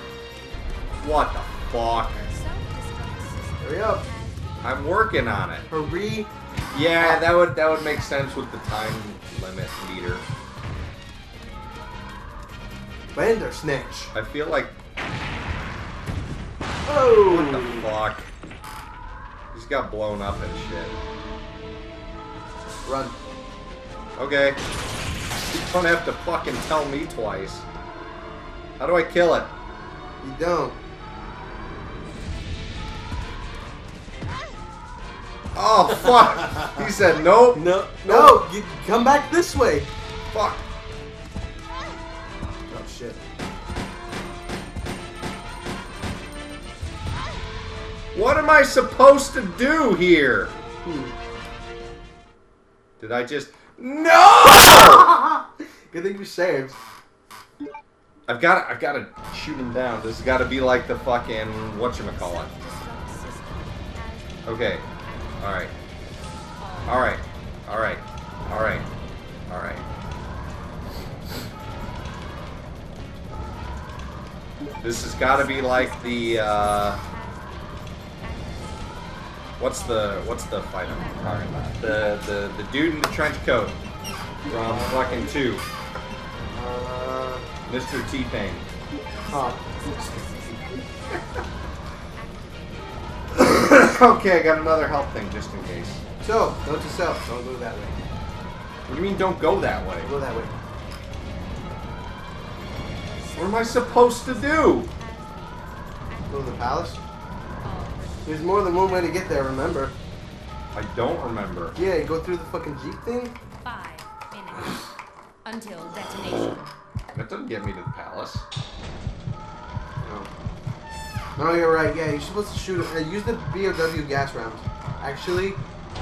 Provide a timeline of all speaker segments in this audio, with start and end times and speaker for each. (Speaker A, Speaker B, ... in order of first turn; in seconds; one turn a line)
Speaker A: 1.0-2.2
Speaker B: 2.1-4.6
Speaker C: 3.6-4.1
Speaker A: 4.6-5.7
Speaker C: 5.7-6.3
Speaker B: 6.5-6.8
Speaker A: 6.7-10.2
Speaker C: 13.1-14.1
Speaker A: 14.1-14.7
Speaker C: 16.9-17.9
Speaker A: 17.2-18.3
Speaker A: 19.5-21.0
Speaker C: 22.8-23.2
Speaker A: 24.1-24.6
Speaker A: 25.4-27.6
Speaker A: 28.8-29.5
Speaker C: 30.2-30.8
Speaker A: 35.5-38.4
Speaker C: 37.5-39.9
Speaker A: 40.3-40.6
Speaker C: 42.7-43.2
Speaker A: 48.1-50.5
Speaker C: 50.8-51.1
Speaker A: 53.0-55.1
Speaker C: 54.7-56.8
Speaker A: 58.3-62.5
Speaker B: 62.0-64.5
Speaker A: 64.5-64.9
Speaker A: 65.4-65.7
Speaker B: 66.6-67.3
Speaker A: 66.8-68.9
Speaker A: 69.5-69.8
Speaker A: 74.8-77.0
Speaker B: 75.1-77.7
Speaker A: 79.6-83.8
Speaker B: 79.8-80.4
Speaker A: 84.5-85.6
Speaker C: 84.5-85.3
Speaker C: 86.5-87.5
Speaker A: 87.7-88.7
Speaker B: 89.1-91.5
Speaker C: 89.3-90.6
Speaker A: 93.3-96.0
Speaker C: 96.2-98.0
Speaker A: 98.9-100.1
Speaker C: 100.0-100.5
Speaker B: 102.9-106.7
Speaker A: 103.3-104.9
Speaker C: 106.3-107.0
Speaker B: 107.6-109.2
Speaker C: 108.2-109.9
Speaker A: 110.7-111.8
Speaker C: 111.8-113.3
Speaker B: 113.6-114.9
Speaker B: 115.4-116.7
Speaker A: 117.1-118.5
Speaker C: 120.0-120.3
Speaker C: 121.4-125.6